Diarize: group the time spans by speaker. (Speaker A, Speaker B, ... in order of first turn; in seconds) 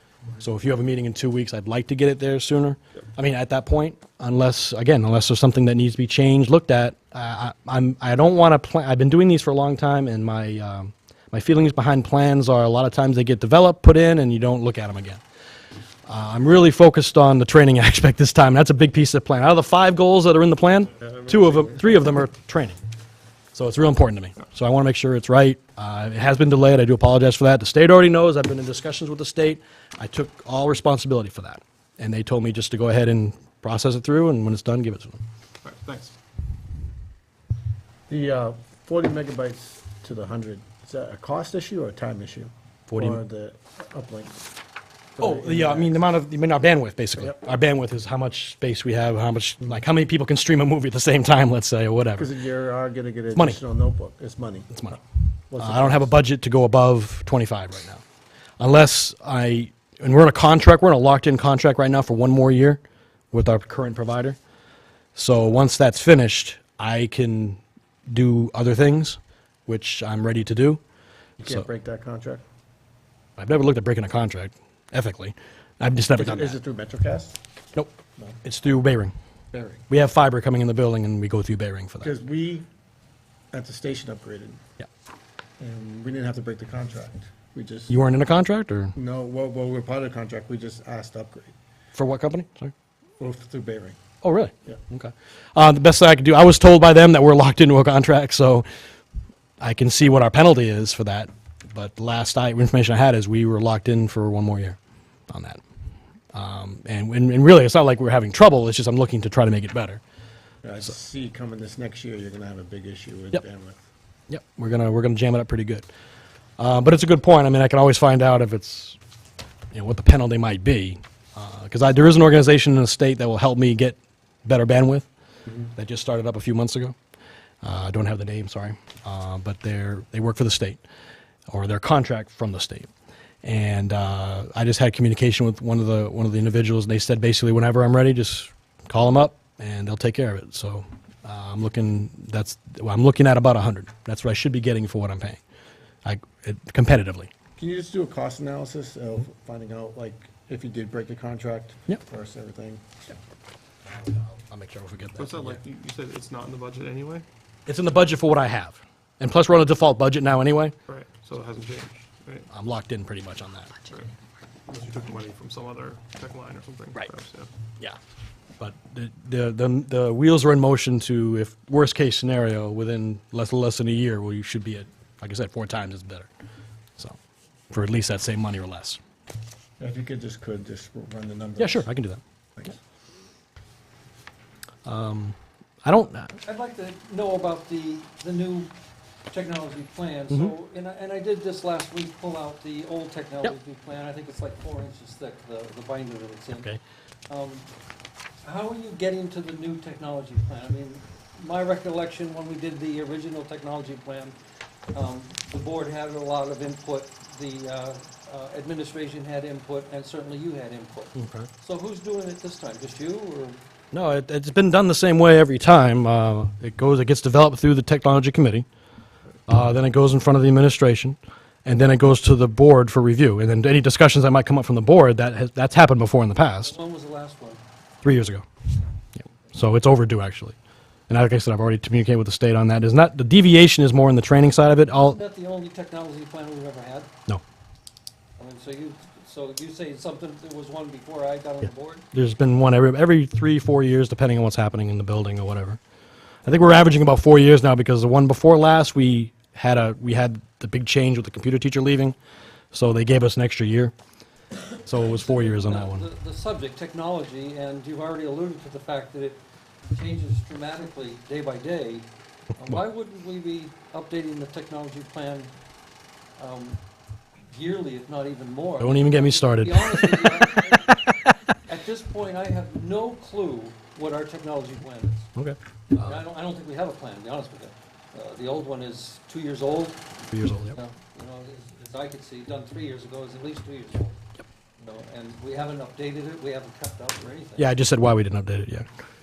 Speaker A: 0.4-15.2, 16.1-22.8, 23.5-35.2, 42.9-43.2, 45.2-52.3, 54.7-55.0, 55.6-58.0, 58.6-62.8, 63.3-64.4, 65.1-70.8, 71.4-71.7, 73.4-76.6, 77.7-79.1, 79.9-82.1, 87.9-88.9, 91.9-92.7, 94.2-98.7, 99.6-104.8, 105.3-105.6, 106.3-110.0, 114.3-115.9, 116.6-119.0, 119.7-125.1, 125.7-126.9, 127.6-130.8, 131.5-132.9, 133.4-145.4, 146.0-147.3, 153.9-155.6, 157.7-160.7, 162.5-163.9, 168.6-176.3, 177.7-179.0, 181.6-182.2, 184.8-186.4, 211.2-211.5, 213.9-218.7, 219.5-226.7, 228.0-228.4, 229.5-230.5, 231.1-235.2, 242.1-245.8, 246.4-252.2, 252.7-253.9, 254.8-256.1, 268.8-270.5, 271.1-271.3, 275.4-276.2, 280.3-280.8, 287.6-288.9
Speaker B: 21.5-21.8, 35.6-36.1, 155.2-157.2, 160.8-162.5, 164.7-167.5
Speaker C: 38.1-44.4, 45.1-46.0, 52.2-54.8, 55.5-56.1, 71.4-72.4, 76.2-77.4, 79.5-79.8, 82.0-82.7, 83.5-84.6, 85.6-88.0, 89.0-91.5, 93.2-94.0, 110.6-113.8, 147.6-153.0, 179.8-181.9
Speaker D: 186.4-188.7, 189.3-196.7, 197.3-197.7, 198.4-204.3, 204.9-213.6, 226.6-227.6, 234.9-237.1, 238.4-242.1, 255.0-259.4, 259.9-262.1, 262.6-265.5, 266.4-266.8, 267.4-270.9, 271.6-275.3, 275.9-280.0, 280.7-284.1, 284.8-287.7